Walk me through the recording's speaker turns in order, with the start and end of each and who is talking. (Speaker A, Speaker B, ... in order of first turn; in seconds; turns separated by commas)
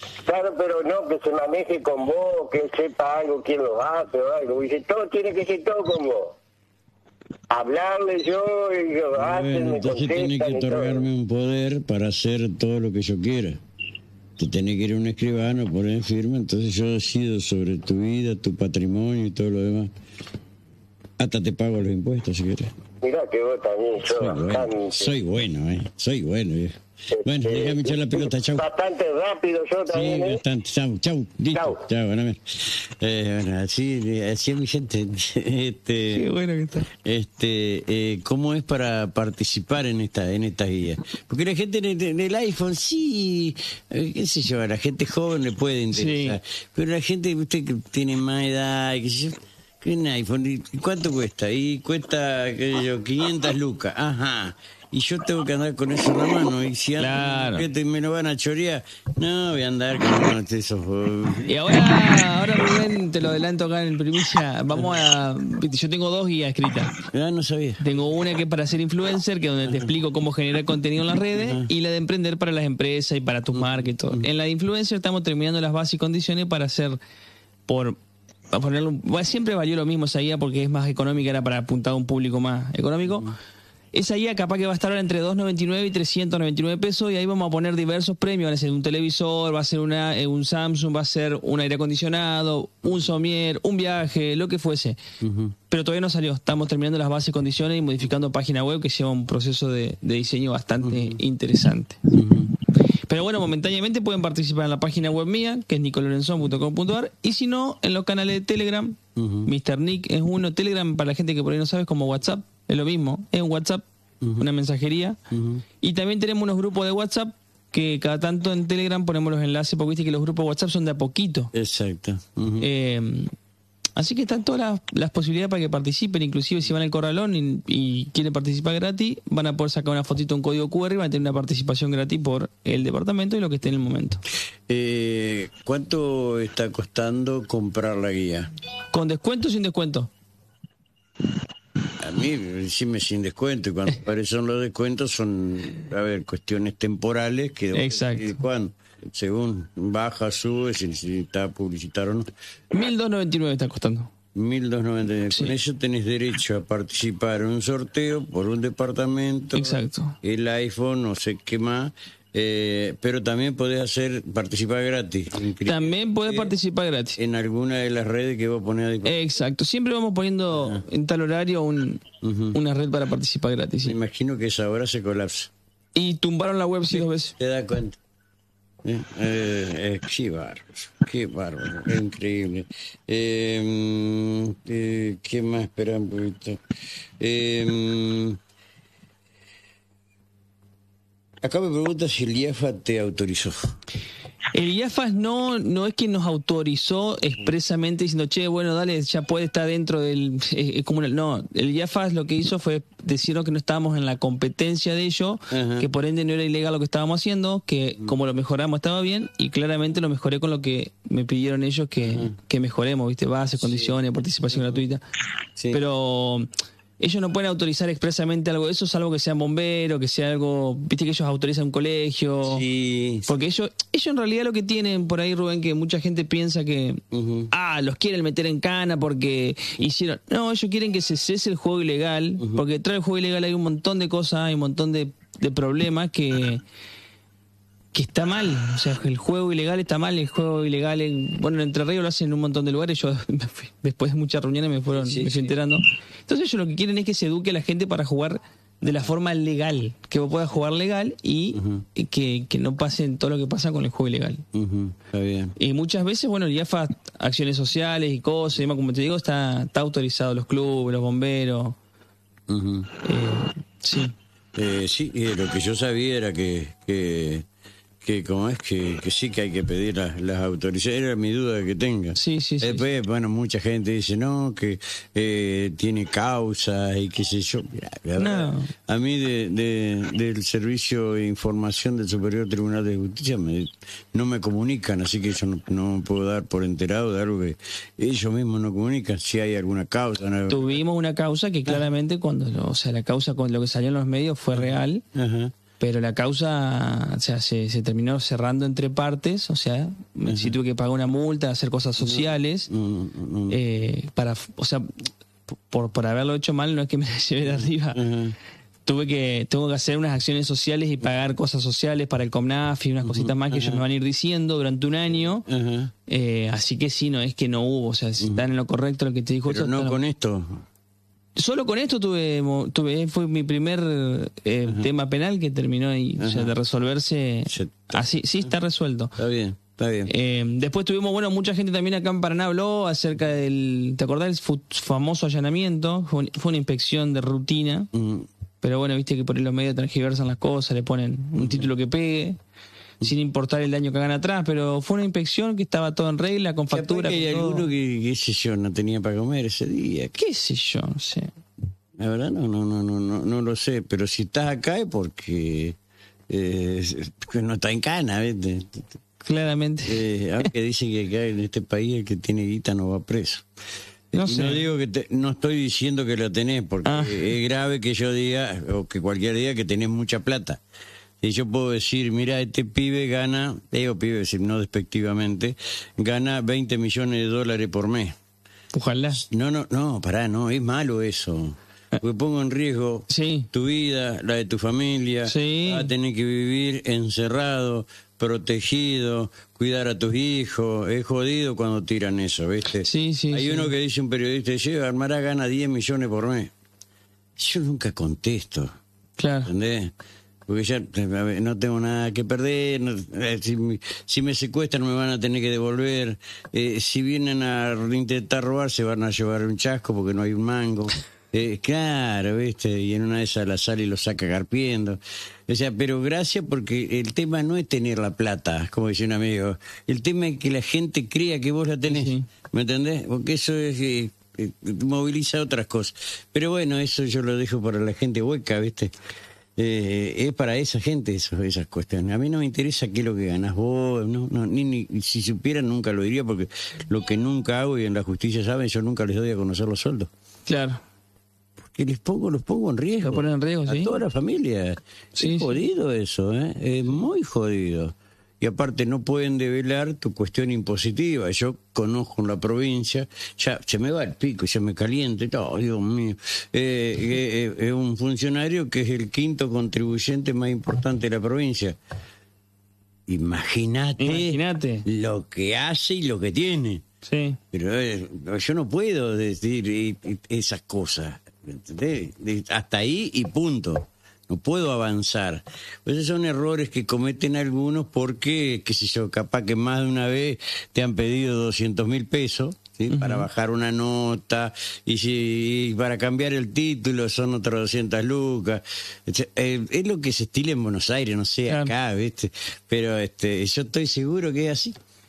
Speaker A: 0.2-6.3, Speaker A: 7.5-11.0, Speaker B: 9.2-13.6, Speaker B: 14.4-19.9, Speaker B: 21.2-22.7, Speaker A: 23.0-25.1, Speaker B: 24.1-28.6, Speaker A: 27.1-30.4, Speaker B: 29.9-36.3, Speaker C: 36.1-36.9, Speaker B: 36.9-61.5, Speaker C: 45.9-46.4, Speaker C: 57.0-57.7, Speaker C: 61.5-67.0, Speaker B: 67.1-67.8, Speaker C: 67.8-77.0, Speaker B: 69.6-69.9, Speaker B: 71.3-71.7, Speaker B: 73.5-74.3, Speaker C: 77.7-78.0, Speaker C: 78.5-83.3, Speaker B: 83.0-83.3, Speaker C: 83.9-95.0, Speaker B: 95.2-95.5, Speaker C: 95.7-102.0, Speaker B: 100.8-101.2, Speaker B: 102.1-102.5, Speaker C: 103.1-113.8, Speaker B: 109.2-109.5, Speaker C: 114.4-115.2, Speaker B: 115.3-115.6, Speaker C: 115.8-121.5, Speaker B: 121.5-122.7, Speaker C: 122.6-123.3, Speaker C: 124.0-134.2, Speaker B: 134.7-138.5, Speaker C: 138.9-140.1, Speaker B: 142.0-152.3, Speaker C: 147.7-148.4, Speaker C: 152.7-154.1, Speaker B: 154.3-166.5, Speaker C: 159.5-160.2, Speaker C: 165.6-167.2, Speaker B: 167.2-169.1, Speaker C: 169.0-174.0, Speaker B: 170.5-170.8, Speaker B: 172.2-172.6, Speaker B: 173.8-175.5, Speaker C: 175.9-177.3, Speaker B: 176.9-178.0, Speaker B: 178.8-186.6, Speaker B: 187.2-188.4, Speaker B: 191.4-193.7, Speaker C: 194.5-215.0, Speaker B: 205.5-205.9, Speaker B: 212.1-212.3, Speaker B: 213.6-213.9, Speaker B: 214.5-214.8, Speaker C: 215.7-216.5, Speaker C: 217.0-222.6, Speaker B: 222.4-223.3, Speaker C: 223.3-236.6, Speaker B: 227.1-227.5, Speaker C: 237.9-254.4, Speaker B: 244.9-245.5, Speaker B: 251.5-251.8, Speaker B: 254.5-255.5, Speaker C: 255.6-261.8, Speaker B: 262.5-262.9, Speaker C: 263.0-264.1, Speaker B: 264.5-267.4, Speaker B: 268.0-290.7, Speaker C: 272.1-272.8, Speaker C: 278.2-278.7, Speaker C: 290.5-295.0, Speaker B: 294.5-295.5, Speaker C: 295.8-302.7, Speaker B: 300.3-300.6, Speaker B: 302.0-303.6, Speaker C: 303.5-304.9, Speaker C: 305.7-308.0, Speaker B: 307.5-308.4, Speaker C: 308.9-315.4, Speaker B: 313.0-313.8, Speaker B: 315.2-315.9, Speaker C: 316.1-320.0, Speaker B: 318.2-318.5, Speaker B: 319.4-320.6, Speaker C: 321.4-329.1, Speaker B: 326.2-326.5, Speaker B: 327.5-328.5, Speaker B: 329.2-330.1, Speaker C: 330.1-337.9, Speaker B: 337.9-338.3, Speaker C: 338.6-342.4, Speaker B: 341.4-341.7, Speaker C: 343.0-347.7, Speaker B: 346.7-350.1, Speaker C: 350.1-351.3, Speaker B: 352.0-355.8, Speaker B: 356.3-358.9, Speaker C: 359.2-360.0, Speaker B: 359.9-363.4, Speaker B: 364.1-370.6, Speaker C: 364.1-364.6, Speaker C: 366.8-367.3, Speaker B: 371.2-378.1, Speaker C: 378.7-379.2, Speaker B: 379.2-396.5, Speaker C: 383.1-383.5, Speaker C: 385.2-385.9, Speaker C: 392.8-393.7, Speaker B: 397.4-398.7, Speaker C: 399.2-399.5, Speaker B: 399.4-399.9, Speaker B: 400.5-428.9, Speaker C: 421.9-422.3, Speaker B: 429.6-440.1, Speaker C: 440.5-440.8, Speaker B: 441.6-461.8, Speaker C: 443.1-444.0, Speaker C: 445.2-445.6, Speaker B: 463.1-466.8, Speaker C: 464.0-464.9, Speaker C: 467.1-467.4, Speaker B: 467.5-494.8, Speaker C: 482.9-483.3, Speaker C: 491.5-491.7